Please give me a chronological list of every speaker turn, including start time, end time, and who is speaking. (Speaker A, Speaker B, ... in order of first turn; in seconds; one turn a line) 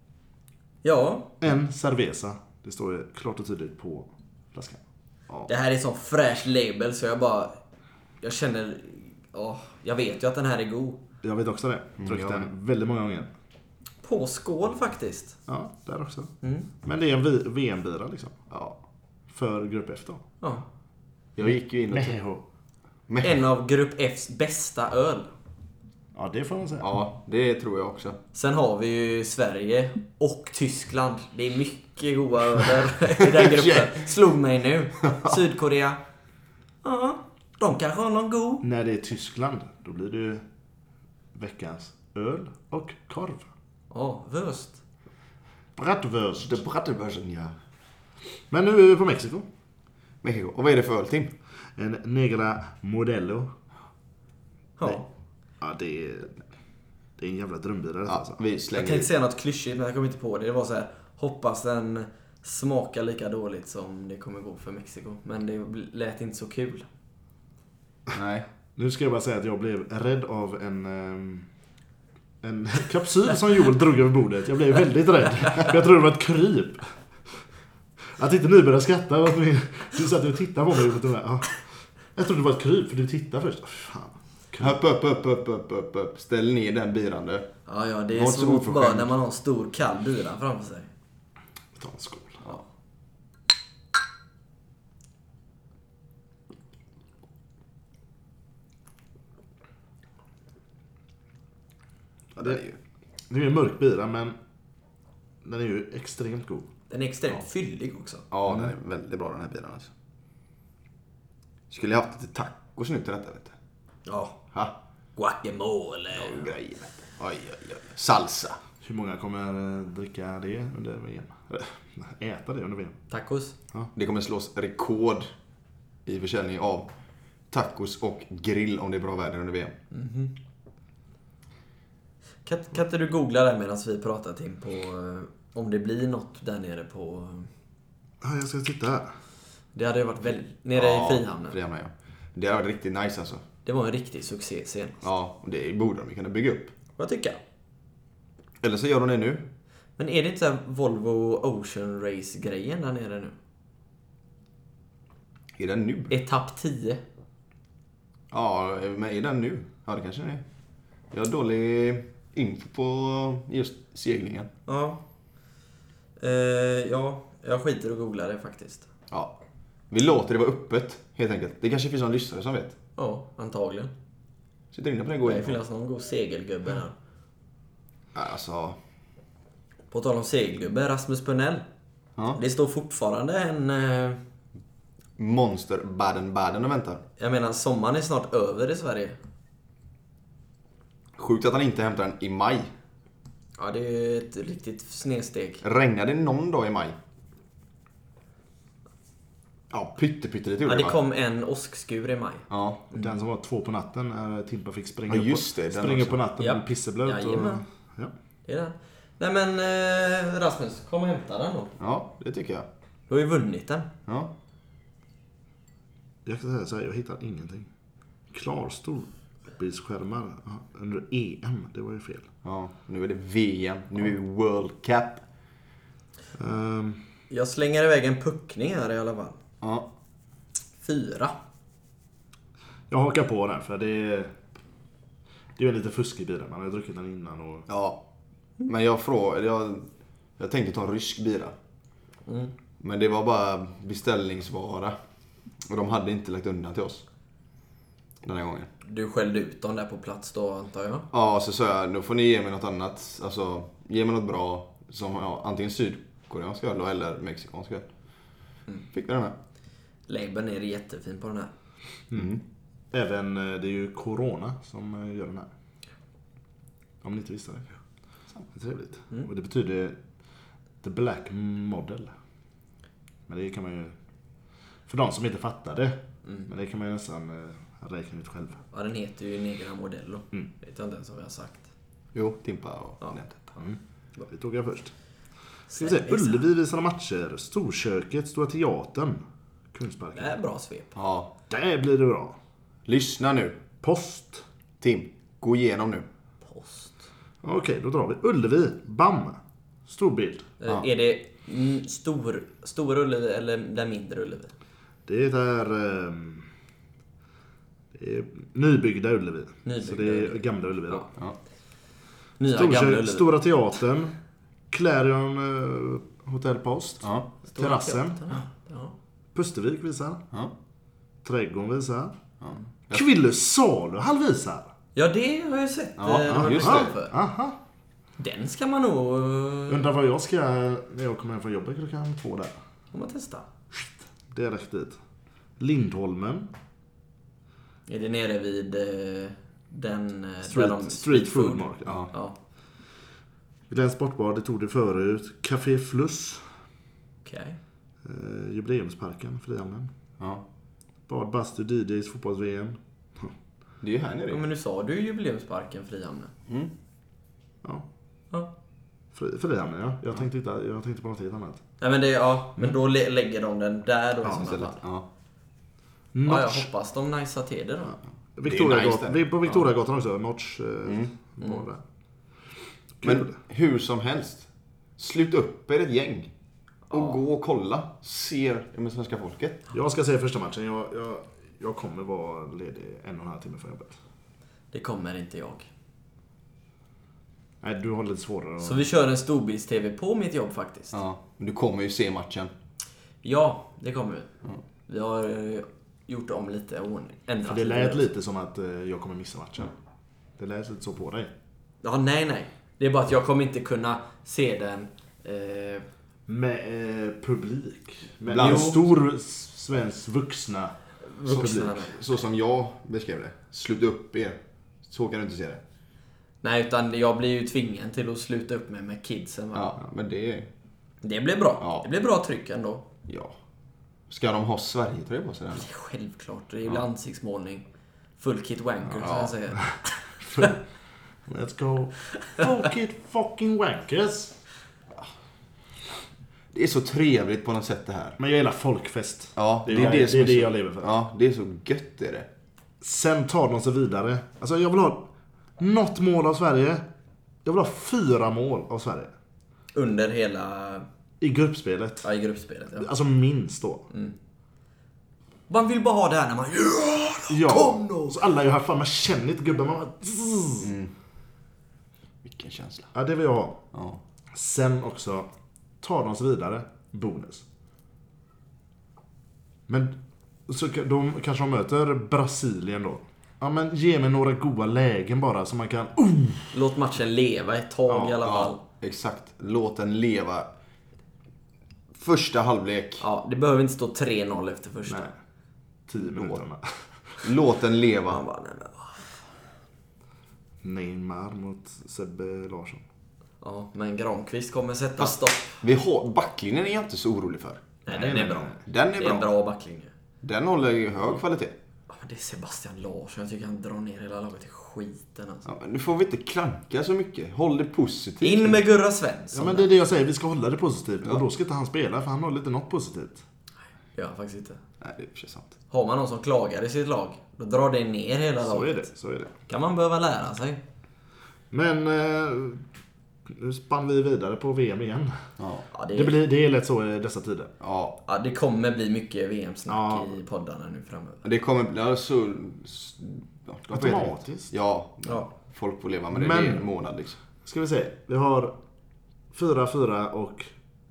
Speaker A: 0.8-1.4
Speaker B: 1.4-5.5
Speaker A: 5.5-7.6
Speaker A: 8.2-11.0
Speaker B: 11.2-13.3
Speaker C: 12.0-12.5
Speaker A: 14.0-15.4
Speaker B: 15.5-18.4
Speaker A: 16.4-16.7
Speaker C: 18.5-18.8
Speaker B: 19.3-20.2
Speaker A: 20.4-20.7
Speaker C: 21.4-22.2
Speaker B: 21.4-22.4
Speaker C: 23.1-23.4
Speaker A: 23.2-25.3
Speaker B: 26.1-26.9
Speaker C: 26.8-28.2
Speaker A: 28.3-36.0
Speaker A: 36.8-38.6
Speaker B: 38.6-40.4
Speaker B: 41.3-43.5
Speaker A: 43.9-44.8
Speaker B: 45.8-46.6
Speaker C: 46.4-47.5
Speaker B: 48.5-49.5
Speaker C: 50.2-51.3
Speaker B: 51.8-53.5
Speaker A: 54.8-55.1
Speaker B: 55.6-56.4
Speaker B: 57.2-58.4
Speaker C: 58.1-59.1
Speaker A: 58.7-66.9
Speaker C: 68.1-68.5
Speaker B: 68.8-71.5
Speaker B: 72.4-76.9
Speaker B: 78.2-84.8
Speaker C: 84.6-87.5
Speaker A: 87.7-90.9
Speaker C: 88.1-89.1
Speaker B: 91.8-92.4
Speaker C: 102.4-102.8
Speaker B: 103.3-104.4
Speaker B: 105.4-106.7
Speaker A: 106.9-108.3
Speaker C: 108.3-109.9
Speaker B: 108.5-108.7
Speaker C: 111.7-113.6
Speaker A: 114.1-114.4
Speaker A: 115.2-116.5
Speaker C: 116.1-118.6
Speaker B: 118.8-123.0
Speaker A: 123.1-123.6
Speaker C: 124.0-125.3
Speaker C: 126.1-126.9
Speaker C: 127.5-129.8
Speaker A: 129.9-130.3
Speaker A: 132.4-137.5
Speaker B: 138.2-139.1
Speaker A: 139.8-141.6
Speaker C: 140.7-143.4
Speaker A: 143.7-145.0
Speaker C: 145.0-146.7
Speaker A: 147.0-147.4
Speaker C: 148.6-149.5
Speaker A: 150.0-153.3
Speaker C: 155.6-156.2
Speaker A: 156.1-157.0
Speaker C: 158.3-160.4
Speaker C: 161.1-164.5
Speaker A: 164.7-165.0
Speaker A: 166.2-168.9
Speaker C: 169.9-172.8
Speaker A: 173.0-173.9
Speaker C: 174.7-175.6
Speaker A: 175.2-176.9
Speaker C: 178.2-178.8
Speaker A: 179.9-181.7
Speaker A: 182.3-184.2
Speaker C: 185.2-187.0
Speaker A: 187.2-189.2
Speaker C: 191.2-192.7
Speaker A: 193.6-195.6
Speaker C: 195.6-197.0
Speaker C: 199.7-201.0
Speaker A: 200.7-203.1
Speaker C: 202.5-202.8
Speaker B: 202.9-208.1
Speaker C: 205.1-206.2
Speaker A: 206.4-207.6
Speaker A: 208.5-211.8
Speaker C: 211.8-212.7
Speaker A: 213.1-213.9
Speaker C: 214.1-214.3
Speaker B: 216.3-217.7
Speaker B: 218.3-222.3
Speaker C: 222.4-225.3
Speaker B: 226.4-227.0
Speaker A: 227.3-229.4
Speaker C: 229.6-229.9
Speaker A: 230.8-231.4
Speaker B: 232.9-234.4
Speaker B: 235.6-237.7
Speaker C: 237.7-238.0
Speaker C: 238.7-241.6
Speaker A: 242.3-242.5
Speaker C: 242.8-245.0
Speaker C: 245.6-247.1
Speaker C: 248.2-248.7
Speaker A: 248.8-251.1
Speaker C: 251.1-257.9
Speaker C: 258.9-259.4
Speaker A: 260.1-261.5
Speaker C: 262.1-262.4
Speaker B: 262.9-265.5
Speaker B: 267.0-267.7
Speaker B: 268.5-270.0
Speaker B: 270.8-272.1
Speaker B: 273.3-273.9
Speaker B: 274.9-278.6
Speaker A: 278.7-281.7
Speaker C: 282.1-283.6
Speaker B: 283.6-284.9
Speaker A: 285.7-286.5
Speaker B: 285.7-290.4
Speaker A: 290.1-291.0
Speaker C: 291.0-291.3
Speaker B: 291.5-292.4
Speaker C: 292.9-293.6
Speaker B: 293.8-294.4
Speaker C: 294.8-296.1
Speaker A: 296.4-297.1
Speaker B: 297.4-300.5
Speaker A: 300.6-304.5
Speaker B: 305.1-306.5
Speaker B: 307.9-311.1
Speaker A: 309.6-310.4
Speaker A: 312.4-313.4
Speaker B: 312.5-314.2
Speaker B: 314.7-318.2
Speaker C: 317.0-317.3
Speaker A: 317.5-318.9
Speaker B: 319.4-320.2
Speaker B: 321.2-322.2
Speaker C: 322.4-323.1
Speaker B: 322.9-324.7
Speaker A: 325.0-327.2
Speaker C: 326.0-326.9
Speaker B: 326.3-327.6
Speaker A: 328.2-330.0
Speaker B: 329.7-332.5
Speaker A: 332.9-333.5
Speaker B: 333.8-335.0
Speaker B: 335.6-336.5
Speaker A: 337.9-342.4
Speaker B: 340.4-342.0
Speaker B: 343.7-346.4
Speaker A: 347.2-347.6
Speaker B: 348.0-349.9
Speaker C: 350.2-350.4
Speaker B: 351.1-353.3
Speaker C: 353.8-354.5
Speaker A: 354.3-356.3
Speaker B: 359.1-361.6
Speaker A: 361.8-364.8
Speaker C: 364.3-365.1
Speaker B: 366.1-366.7
Speaker A: 366.2-368.0
Speaker B: 368.4-371.8
Speaker C: 368.4-369.2
Speaker C: 370.9-371.1
Speaker A: 371.4-371.6
Speaker B: 373.0-373.4
Speaker C: 373.0-376.3
Speaker A: 376.9-377.2
Speaker C: 376.9-379.6
Speaker B: 379.7-384.0
Speaker A: 384.7-385.7
Speaker B: 387.6-388.9
Speaker A: 388.6-390.9
Speaker C: 390.9-392.5
Speaker A: 393.2-394.3
Speaker A: 394.9-398.1
Speaker B: 397.4-399.7
Speaker B: 400.4-401.3
Speaker A: 401.8-405.9
Speaker B: 406.3-411.9
Speaker C: 408.3-408.9
Speaker A: 408.4-408.8
Speaker A: 411.1-412.0
Speaker C: 411.3-415.6
Speaker A: 416.4-419.8
Speaker C: 419.5-420.5
Speaker A: 421.0-422.9
Speaker C: 421.6-421.9
Speaker C: 423.1-423.3
Speaker C: 424.1-425.7
Speaker A: 425.5-427.7
Speaker A: 428.2-430.5
Speaker C: 429.0-429.3
Speaker B: 429.5-430.6
Speaker B: 431.3-434.4
Speaker C: 436.5-438.2
Speaker B: 438.2-440.9
Speaker C: 439.4-442.3
Speaker B: 442.8-445.1
Speaker B: 445.6-446.9
Speaker B: 447.4-449.1
Speaker A: 449.7-450.9
Speaker B: 451.2-452.1
Speaker A: 452.0-452.9
Speaker B: 452.8-453.9
Speaker A: 453.9-454.2
Speaker A: 455.5-458.1
Speaker B: 457.3-460.7
Speaker C: 460.6-460.9
Speaker C: 462.2-462.9
Speaker B: 462.9-463.6
Speaker C: 463.7-464.0
Speaker B: 464.3-465.3
Speaker B: 465.8-467.4
Speaker B: 469.7-470.0
Speaker B: 470.5-476.6
Speaker A: 476.5-478.6
Speaker B: 477.9-478.2
Speaker C: 478.2-480.5
Speaker C: 481.9-483.1
Speaker A: 483.0-485.1
Speaker B: 484.9-485.1
Speaker B: 485.9-487.2
Speaker C: 486.0-486.4
Speaker C: 487.2-488.2
Speaker A: 488.1-489.2
Speaker B: 490.6-492.8
Speaker A: 493.4-495.6
Speaker C: 495.0-497.6
Speaker A: 497.9-499.9
Speaker B: 497.9-498.6
Speaker C: 498.6-499.3
Speaker C: 500.2-501.6
Speaker A: 501.9-505.4
Speaker C: 505.4-508.6
Speaker A: 508.2-509.7
Speaker B: 509.3-513.2
Speaker A: 513.9-514.6
Speaker C: 514.8-515.5
Speaker A: 515.7-518.9
Speaker B: 518.4-519.3
Speaker A: 519.5-520.6
Speaker B: 521.5-522.6
Speaker B: 523.3-525.2
Speaker C: 525.4-525.7
Speaker A: 525.7-526.2
Speaker B: 525.9-527.5
Speaker C: 527.6-528.0
Speaker A: 528.0-531.2
Speaker B: 529.7-530.1
Speaker C: 531.2-537.2
Speaker B: 533.7-534.5
Speaker B: 536.1-536.7
Speaker B: 537.4-538.6
Speaker B: 539.3-540.5